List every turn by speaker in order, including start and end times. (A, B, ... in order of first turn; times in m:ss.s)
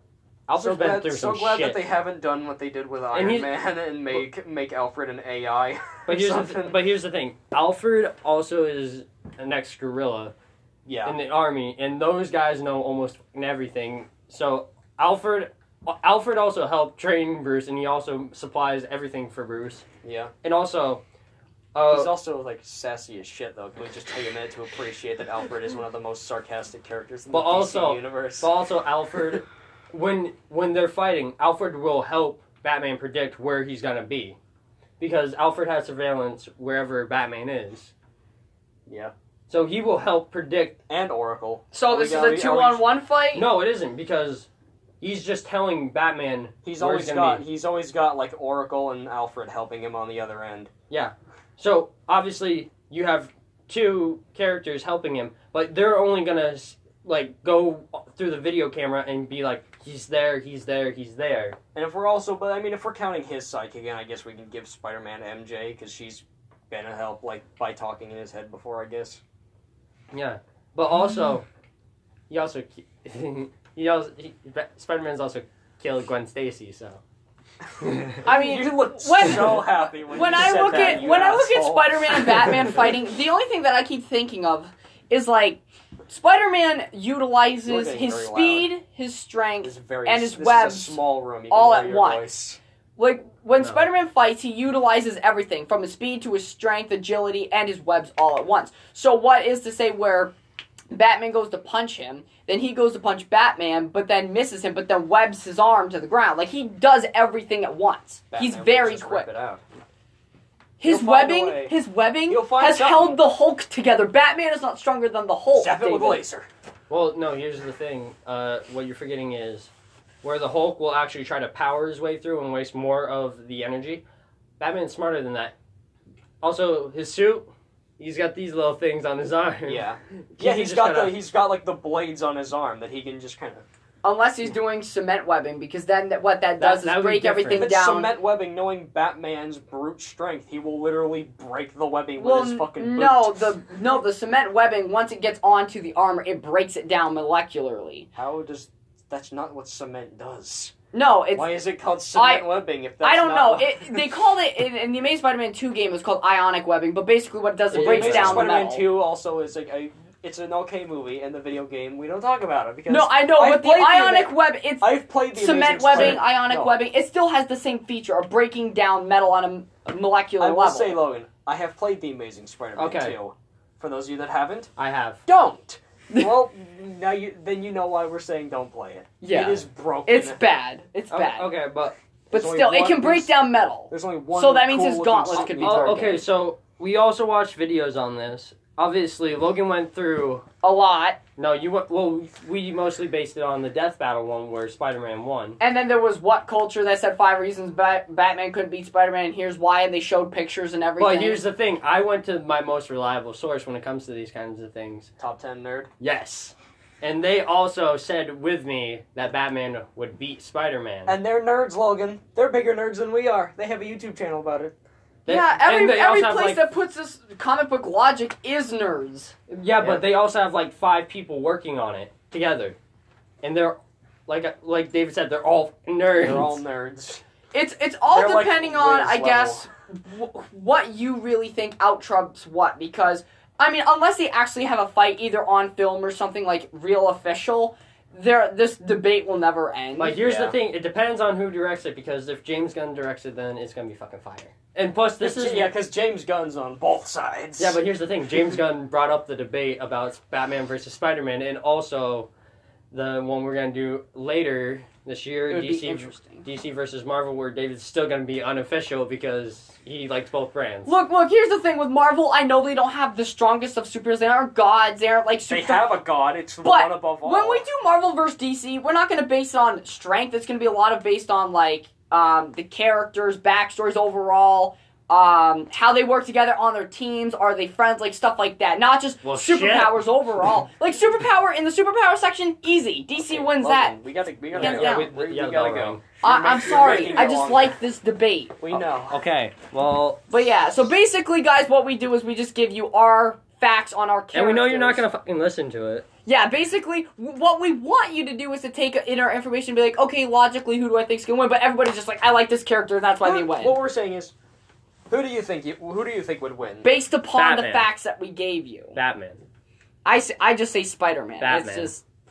0:00.5-0:01.8 A
0:00.6-0:06.8 B
0:03.1-0:03.5 A
0:06.1-0:10.3 A
0:10.9-0:11.2 B
0:11.0-0:19.8 A
0:20.0-0:20.3 B
0:20.4-0:21.0 A
0:21.7-0:22.1 A
0:21.9-0:28.5 B
0:27.3-0:34.4 A
0:35.0-0:37.9 A
0:38.9-0:39.1 B
0:39.5-0:40.8 A
0:40.9-0:42.8 B
0:41.7-0:43.5 C
0:43.4-0:44.5 A
0:45.0-0:47.4 A
0:46.6-0:50.7 B
0:50.9-1:01.6 A
1:01.7-1:09.2 B
1:10.1-1:11.4 A
1:12.3-1:17.0 A
1:18.1-1:23.0 B
1:18.2-1:31.0 C
1:20.5-1:21.0 A
1:27.7-1:28.7 B
1:29.6-1:32.6 B
1:31.5-1:32.2 C
1:33.0-1:40.3 C
1:33.6-1:33.9 A
1:40.9-1:49.3 C
1:48.3-1:49.6 B
1:50.8-1:56.2 C
1:50.8-1:51.7 B
1:52.3-1:53.2 B
1:55.5-1:56.5 B
1:56.9-1:59.7 A
2:00.2-2:04.0 A
2:04.6-2:05.5 A
2:06.4-2:11.2 A
2:09.6-2:13.6 B
2:14.0-2:18.1 C
2:16.6-2:17.7 A
2:17.6-2:23.6 B
2:22.2-2:28.1 C
2:28.1-2:30.7 B
2:30.9-2:31.5 C
2:31.3-2:34.1 B
2:32.1-2:32.4 C
2:33.0-2:38.8 C
2:37.7-2:38.5 A
2:37.7-2:46.7 B
2:42.9-2:51.0 C
2:45.9-2:46.2 A
2:50.4-2:54.7 B
2:52.8-2:53.2 A
2:54.8-2:55.2 A
2:55.2-3:00.4 B
2:59.2-3:01.5 C
3:01.1-3:01.9 A
3:02.3-3:06.2 C
3:02.3-3:03.4 B
3:03.9-3:06.0 B
3:05.4-3:10.5 A
3:10.6-3:11.2 C
3:11.4-3:15.6 A
3:15.6-3:21.4 C
3:21.0-3:25.1 A
3:25.2-3:25.9 B
3:26.0-3:31.2 A
3:31.0-3:34.7 B
3:35.2-3:36.6 A
3:35.3-3:39.4 C
3:39.5-3:42.8 A
3:43.4-3:46.6 A
3:46.2-3:47.2 B
3:47.5-4:00.2 C
3:48.1-3:49.6 B
4:00.0-4:05.7 A
4:00.2-4:00.6 B
4:05.2-4:07.8 B
4:07.6-4:12.3 A
4:12.9-4:20.9 A
4:15.5-4:16.4 C
4:20.9-4:25.9 C
4:25.5-4:27.6 B
4:26.6-4:44.0 C
4:39.2-4:40.0 A
4:43.2-4:47.8 B
4:44.5-4:46.0 A
4:44.5-4:45.1 C
4:46.2-4:48.6 C
4:48.6-4:49.2 B
4:48.7-4:50.2 A
4:50.3-4:55.0 C
4:54.3-4:56.0 A
4:56.2-5:03.8 C
5:03.2-5:04.3 B
5:05.1-5:06.9 B
5:06.8-5:09.0 C
5:07.4-5:07.9 A
5:08.9-5:09.4 A
5:10.0-5:12.0 C
5:11.4-5:11.9 A